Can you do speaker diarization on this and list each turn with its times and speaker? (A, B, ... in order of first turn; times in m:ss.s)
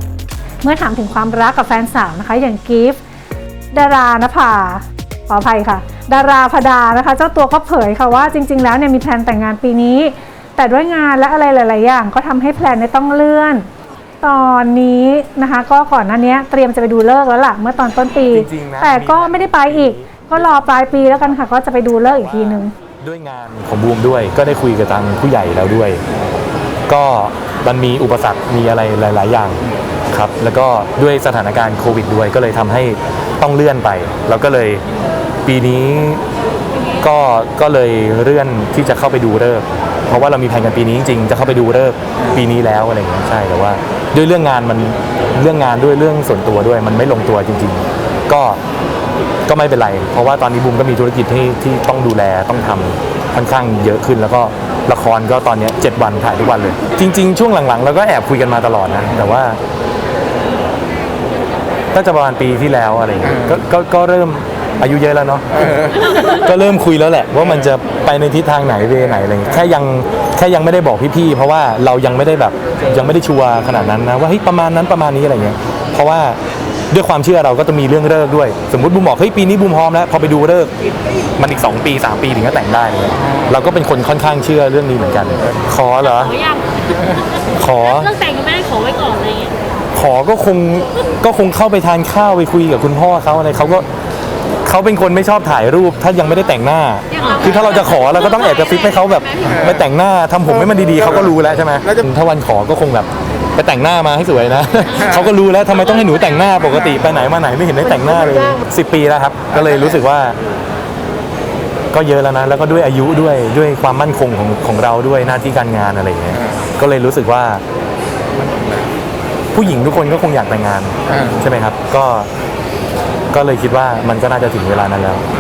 0:00.6-0:03.0 A
0:03.7-0:13.7 A
0:14.2-0:22.7 A
0:18.3-0:21.3 B
0:21.9-0:26.0 B
0:26.9-0:34.8 B
0:35.4-0:36.2 B
0:37.0-0:48.6 B
0:49.5-0:59.6 B
1:01.9-1:16.4 B
1:16.9-1:20.7 B
1:21.4-1:26.3 B
1:26.1-1:27.2 C
1:27.6-1:28.1 B
1:27.9-1:29.5 C
1:29.9-1:33.9 B
1:34.6-1:50.4 B
1:37.1-1:38.0 C
1:38.9-1:39.4 C
1:51.9-1:57.6 B
1:59.5-2:02.3 B
2:03.3-2:05.2 B